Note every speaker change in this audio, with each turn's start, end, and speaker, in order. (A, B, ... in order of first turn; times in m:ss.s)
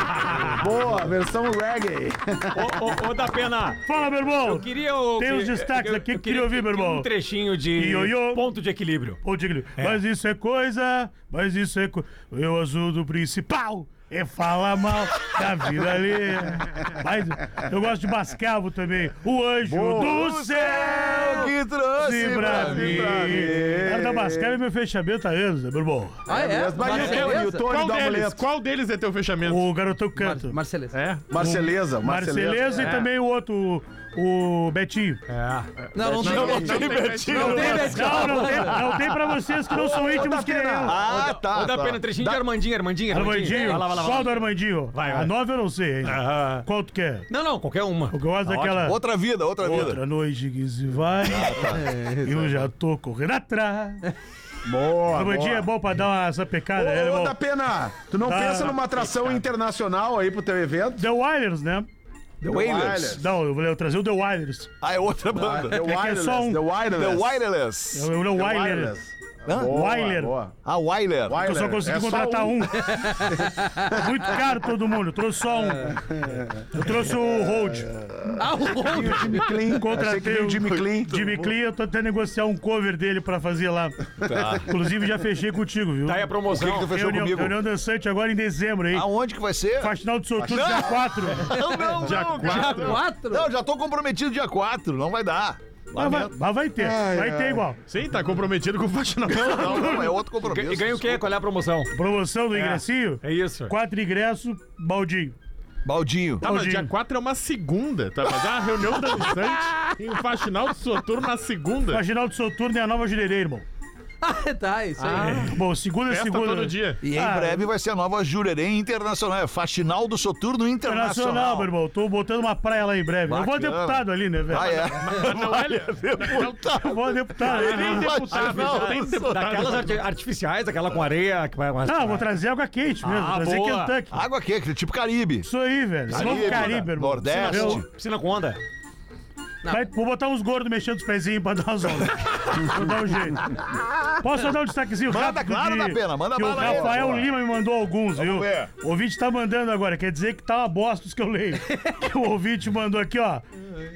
0:00.5-0:02.9 A
0:02.5-0:03.8 B
0:03.8-0:07.1 C
0:04.3-0:09.2 B
0:07.7-0:08.4 C
0:09.2-0:26.2 C
0:19.6-0:20.2 A
0:20.0-0:23.4 D
0:22.3-0:24.6 A
0:26.3-0:27.7 E
0:26.3-0:28.4 A
0:26.8-0:29.7 F
0:29.4-0:30.6 C
0:30.2-0:30.9 E
0:30.9-0:31.2 F
0:31.3-0:32.8 A
0:31.3-0:35.2 C
0:32.8-0:33.1 B
0:35.3-0:35.7 B
0:35.8-0:38.2 F
0:35.9-0:38.8 E
0:36.0-0:39.3 D
0:37.4-0:41.0 C
0:39.7-0:41.0 A
0:40.8-0:42.4 D
0:41.0-0:45.3 B
0:43.1-0:47.3 C
0:46.0-0:46.6 B
0:47.3-0:48.2 B
0:48.1-0:49.0 C
0:48.4-0:50.0 D
0:49.6-0:54.0 C
0:51.3-0:51.9 D
0:52.0-0:52.5 A
0:54.6-0:55.7 A
0:55.1-0:57.4 C
0:56.7-1:01.0 A
0:58.2-0:58.8 C
1:01.0-1:01.9 C
1:02.4-1:03.2 D
1:02.4-1:03.2 A
1:03.1-1:04.7 C
1:04.8-1:05.8 D
1:05.3-1:07.4 A
1:05.7-1:06.6 C
1:06.9-1:08.1 D
1:07.9-1:08.9 C
1:08.3-1:10.5 A
1:09.5-1:09.8 D
1:09.7-1:10.4 C
1:10.6-1:11.5 D
1:11.3-1:12.7 A
1:11.4-1:17.9 C
1:12.8-1:13.9 E
1:18.4-1:19.5 E
1:18.6-1:21.2 A
1:19.5-1:29.1 C
1:21.1-1:21.5 D
1:24.2-1:24.7 D
1:26.0-1:27.0 B
1:26.5-1:27.6 D
1:28.9-1:29.9 D
1:29.8-1:31.6 C
1:30.4-1:31.2 A
1:30.5-1:36.3 D
1:31.5-1:33.5 E
1:32.0-1:33.0 F
1:35.9-1:37.8 C
1:36.8-1:37.6 A
1:37.9-1:40.1 F
1:39.3-1:41.3 D
1:39.6-1:40.1 C
1:40.5-1:41.9 B
1:41.9-1:45.3 C
1:42.5-1:43.7 B
1:45.8-1:46.4 D
1:46.4-1:52.0 F
1:46.4-1:46.9 C
1:51.9-1:53.6 C
1:54.2-1:55.4 E
1:55.0-1:55.6 F
1:55.2-1:57.7 C
1:56.1-1:57.0 F
1:57.0-2:01.7 D
2:00.8-2:04.8 C
2:03.3-2:09.4 D
2:05.0-2:06.6 F
2:06.7-2:08.3 C
2:07.4-2:10.0 F
2:07.7-2:12.3 B
2:11.8-2:14.2 C
2:13.0-2:14.0 B
2:14.1-2:15.5 D
2:15.4-2:17.8 C
2:16.1-2:17.8 D
2:16.2-2:16.8 B
2:17.4-2:18.6 B
2:19.7-2:23.5 C
2:23.7-2:24.1 D
2:24.2-2:33.4 C
2:25.1-2:27.3 D
2:28.1-2:28.7 D